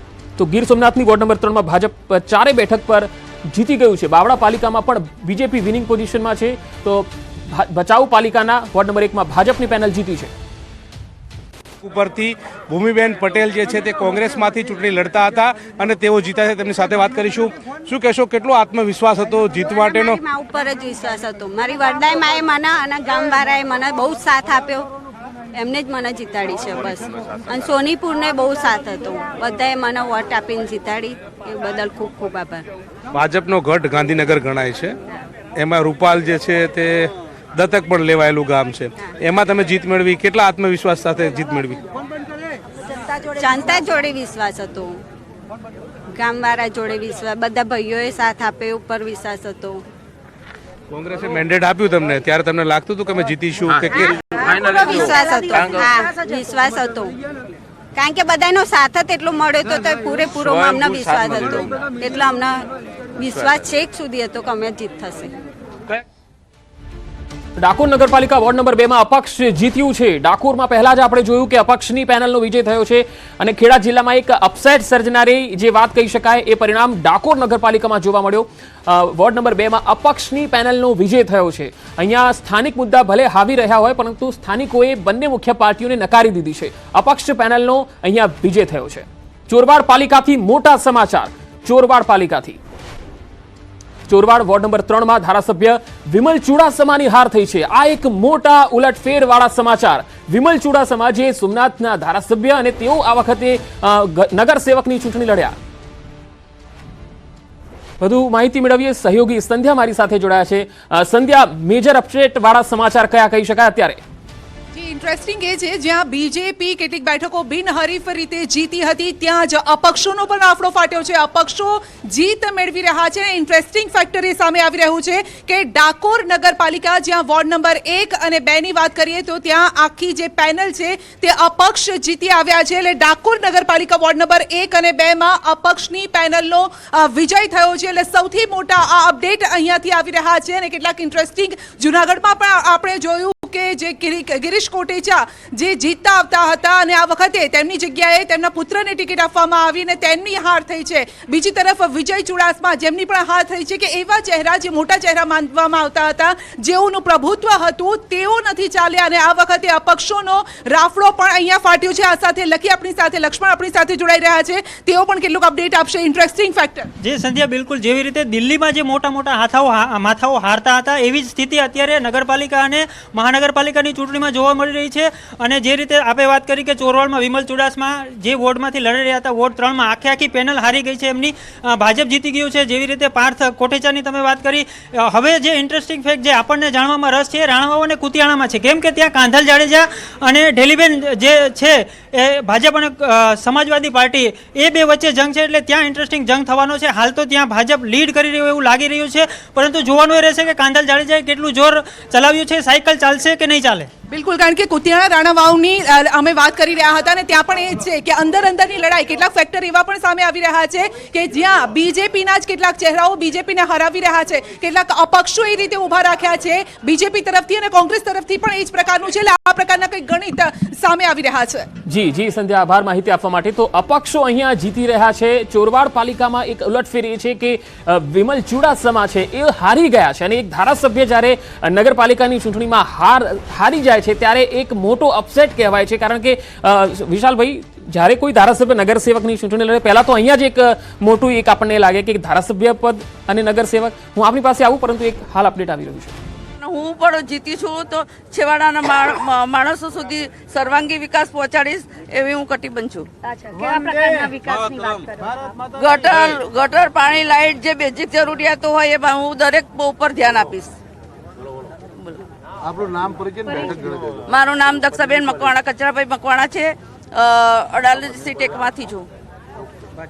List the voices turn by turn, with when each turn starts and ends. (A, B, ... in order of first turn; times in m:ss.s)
0:00.4-0:10.3 A
0:11.8-0:20.2 B
0:19.8-0:24.9 C
0:25.5-0:32.6 C
0:33.1-0:35.0 B
0:35.6-0:41.8 B
0:43.3-0:45.0 C
0:46.1-0:49.8 C
0:50.9-0:54.5 B
0:54.5-0:57.2 C
0:58.0-1:02.6 C
1:03.2-1:05.3 C
1:07.6-1:32.6 A
1:34.1-1:45.6 A
1:48.0-1:54.0 A
1:54.7-2:46.9 D
2:47.0-3:23.9 E
3:24.1-3:41.7 D
3:41.9-4:06.1 A
4:06.6-4:13.1 F
4:15.8-4:20.7 F
4:23.5-4:29.1 F